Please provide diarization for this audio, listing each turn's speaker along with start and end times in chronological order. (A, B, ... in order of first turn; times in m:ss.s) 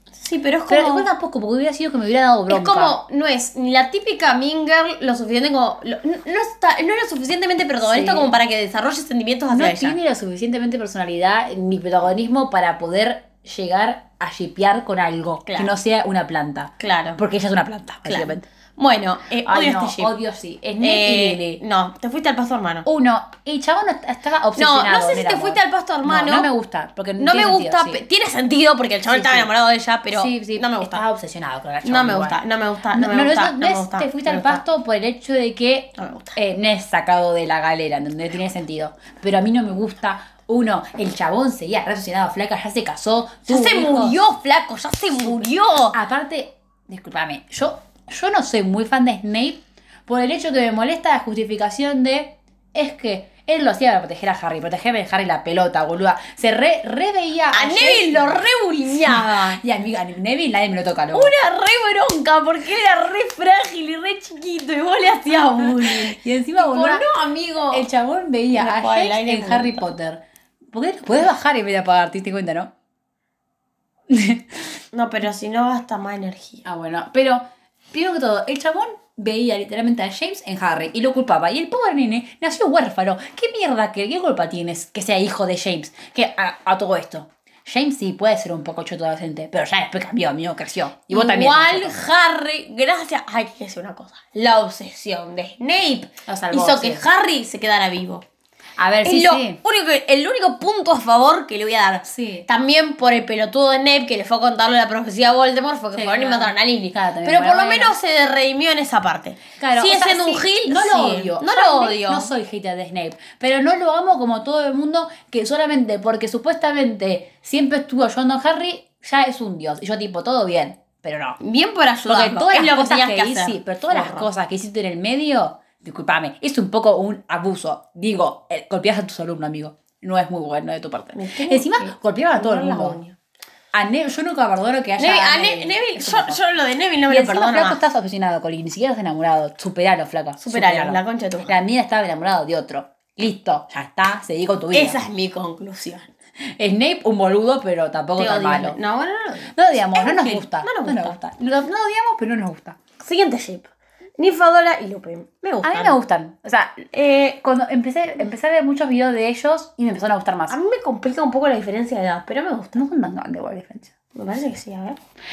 0:00.2-0:01.1 A
0:00.7-0:02.9 B
0:02.5-0:10.0 A
0:07.8-0:08.3 B
0:09.5-0:18.4 B
0:15.4-0:15.7 A
0:16.8-0:17.2 A
0:18.0-0:20.1 A
0:19.4-0:21.6 B
0:20.8-0:22.8 A
0:22.8-0:28.0 B
0:24.6-0:26.5 A
0:27.2-0:31.0 A
0:29.1-0:29.5 B
0:30.1-0:32.4 B
0:31.8-0:34.6 A
0:32.9-0:44.2 B
0:36.0-0:36.4 A
0:43.5-0:46.0 A
0:45.9-0:58.4 B
0:57.5-0:59.6 A
0:59.0-1:01.3 B
1:01.1-1:07.9 A
1:05.5-1:07.1 B
1:07.7-1:10.2 B
1:08.5-1:09.8 A
1:10.7-1:12.7 B
1:14.1-1:14.8 B
1:14.9-1:16.6 A
1:16.6-1:32.0 B
1:31.1-1:38.2 A
1:36.3-1:37.0 B
1:38.8-1:39.6 B
1:39.0-1:52.3 A
1:42.0-1:42.4 B
1:45.9-1:48.0 B
1:49.6-2:01.4 B
2:01.4-2:04.2 A
2:02.1-2:13.0 B
2:11.1-2:13.2 A
2:13.7-2:16.4 B
2:15.0-2:17.8 A
2:17.1-2:25.0 B
2:20.4-2:21.6 A
2:24.7-2:26.1 A
2:26.4-2:28.8 B
2:28.2-2:31.2 A
2:29.5-2:32.8 B
2:33.0-2:36.0 A
2:35.6-2:40.6 B
2:36.9-2:37.4 A
2:40.5-2:42.8 A
2:42.7-2:43.9 B
2:44.1-2:45.0 A